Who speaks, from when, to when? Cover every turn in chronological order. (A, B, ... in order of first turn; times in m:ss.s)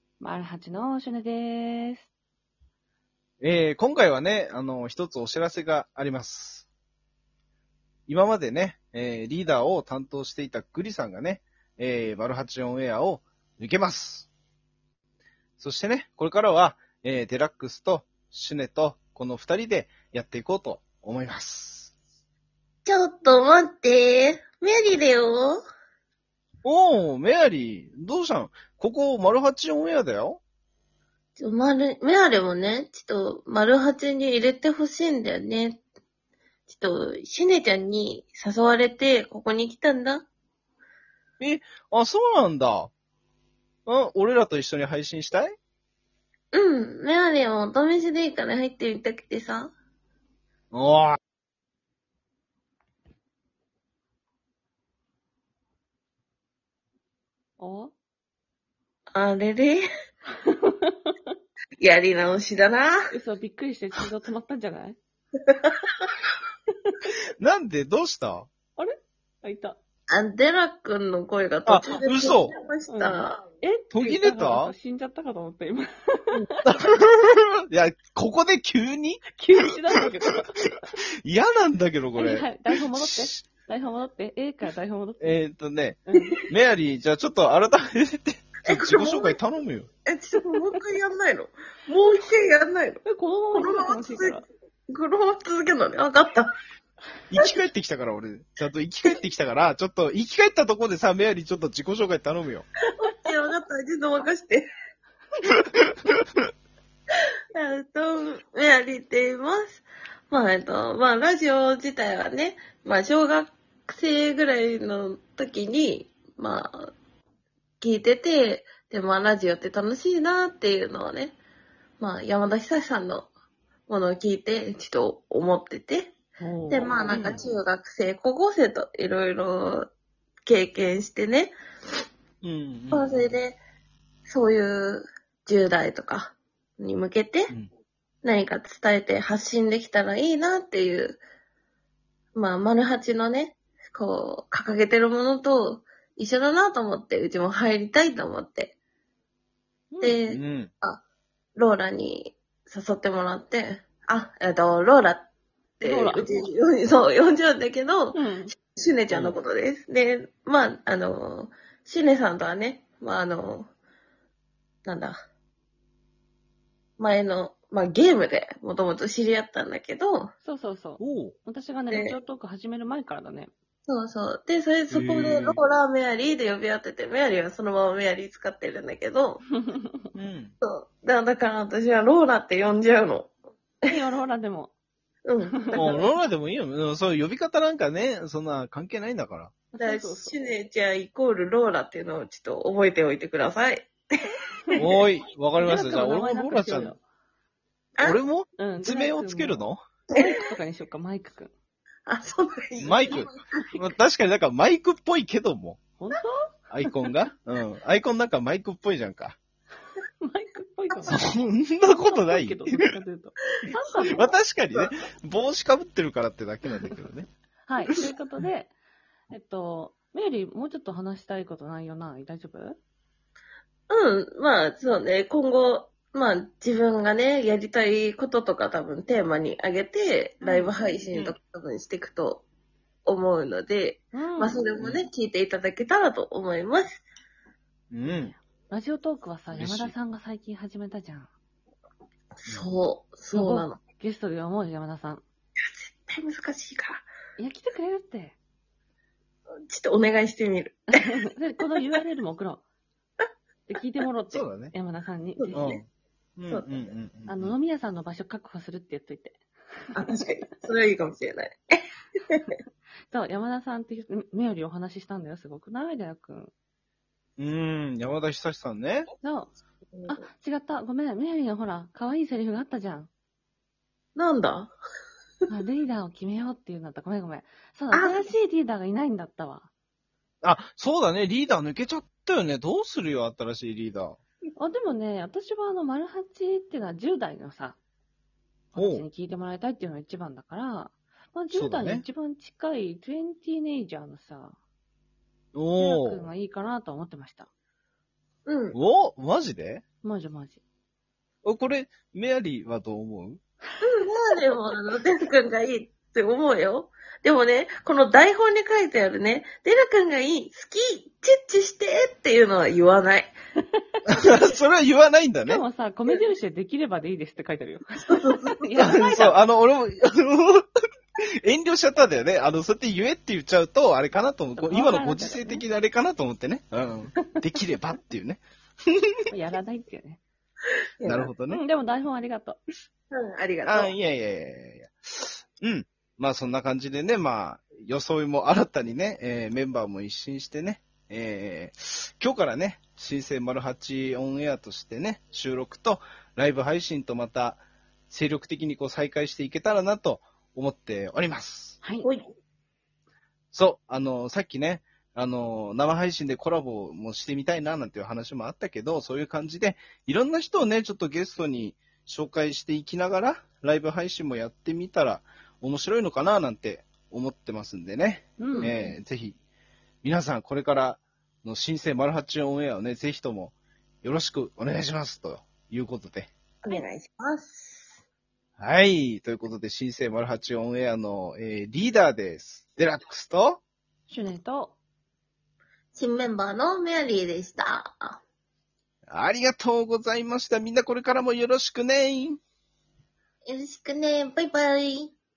0:00.2-0:02.1 A
0:03.4-0:06.7 B
0:08.1-0:14.3 B
0:15.6-0:21.9 B
0:22.8-0:25.6 C
0:26.6-0:30.4 B
0:31.4-0:35.8 C
0:36.7-0:40.2 C
0:41.4-0:42.9 B
0:43.8-0:45.5 B
0:46.5-0:49.7 C
0:50.7-0:51.2 B
0:57.6-0:57.9 A
0:59.1-0:59.8 C
1:00.4-1:01.1 A
1:01.8-1:03.1 C
1:03.1-1:05.0 A
1:05.5-1:06.0 C
1:07.4-1:08.5 B
1:08.8-1:09.8 A
1:10.1-1:13.4 C
1:11.6-1:12.5 B
1:12.9-1:16.6 A
1:13.9-1:14.7 B
1:16.6-1:19.3 B
1:19.3-1:20.6 A
1:21.2-1:23.4 B
1:22.2-1:25.4 A
1:25.2-1:26.0 B
1:26.1-1:26.4 A
1:26.5-1:29.9 B
1:28.6-1:29.4 C
1:30.0-1:33.0 C
1:30.4-1:30.8 A
1:33.0-1:34.4 A
1:33.5-1:36.5 C
1:37.3-1:42.6 B
1:43.0-1:44.7 C
1:47.5-1:56.9 C
1:57.8-2:01.4 C
2:02.0-2:03.3 C
2:03.9-2:06.1 C
2:06.4-2:07.4 A
2:06.7-2:09.9 C
2:10.4-2:11.5 C
2:12.4-2:13.2 B
2:12.9-2:13.6 C
2:14.3-2:17.5 C
2:18.2-2:21.2 C
2:22.3-2:28.7 C
2:29.9-2:30.2 A
2:30.0-2:31.0 C
2:30.3-2:30.7 B
2:31.6-2:35.2 C
2:35.8-2:38.2 C
2:35.8-2:36.2 A
2:38.1-2:38.5 A
2:38.7-2:43.7 C
2:39.1-2:39.3 B
2:44.8-2:45.2 C
2:47.0-2:50.3 C
2:50.4-2:53.5 A
2:51.0-2:51.3 B
2:51.9-2:52.2 C
2:53.9-2:59.4 C
2:54.9-2:55.6 B
2:59.6-3:00.0 A
3:00.1-3:00.5 B
3:00.6-3:03.3 C
3:03.9-3:04.7 A
3:05.2-3:06.0 C
3:05.5-3:06.0 A
3:05.8-3:09.5 B
3:09.7-3:10.3 A
3:09.8-3:13.9 C
3:14.8-3:16.9 B
3:15.6-3:17.0 A
3:18.0-3:19.8 B
3:18.6-3:21.5 A
3:22.0-3:23.5 C
3:22.8-3:25.8 B
3:26.0-3:26.4 A
3:26.7-3:29.4 B
3:30.2-3:31.3 A
3:31.1-3:32.9 B
3:31.8-3:34.4 A
3:34.1-3:37.3 B
3:37.7-3:38.7 A
3:39.3-3:42.8 A
3:43.9-3:52.4 C
3:50.4-3:50.7 A
3:53.0-3:56.9 C
3:54.1-3:54.7 A
3:57.9-3:58.3 B
3:58.0-4:01.3 A
3:59.5-3:59.9 B
4:02.4-4:03.8 C
4:03.3-4:05.2 A
4:05.6-4:07.0 C
4:07.4-4:08.4 A
4:09.7-4:11.0 C
4:10.9-4:12.6 A
4:13.7-4:15.6 A
4:14.3-4:14.7 B
4:15.4-4:15.8 C
4:15.5-4:17.5 B
4:16.5-4:16.7 C
4:17.3-4:19.4 A
4:19.9-4:22.4 C
4:23.1-4:26.5 A
4:27.4-4:29.1 B
4:29.2-4:29.5 A
4:30.1-4:33.1 A
4:34.2-4:34.7 C
4:35.5-4:39.7 A
4:37.9-4:38.3 C
4:40.4-4:44.2 B
4:44.6-4:47.8 A
4:48.7-4:54.6 A
4:48.8-4:49.0 B
4:51.5-4:52.0 B
4:55.5-4:56.2 B
4:55.8-4:57.5 A
4:58.5-4:58.8 C
4:58.7-4:59.8 B
5:00.0-5:00.6 A
5:01.4-5:03.4 B
5:03.8-5:13.3 C
5:14.1-5:15.6 B
5:15.4-5:19.4 A
5:18.0-5:18.6 C
5:18.8-5:20.6 B
5:21.4-5:29.0 B
5:24.6-5:25.6 A
5:29.3-5:30.2 A
5:31.0-5:31.3 C
5:31.0-5:31.6 B
5:31.5-5:32.6 A
5:33.1-5:33.9 C
5:33.6-5:51.8 B
5:51.8-5:52.1 A
5:52.0-5:52.3 C
5:53.5-6:09.4 B
6:08.4-6:09.0 A
6:10.0-6:16.3 B
6:16.6-6:17.8 C
6:18.6-6:23.6 B
6:24.1-6:24.8 A
6:25.9-6:28.2 C
6:29.1-6:32.4 B
6:33.5-6:35.1 C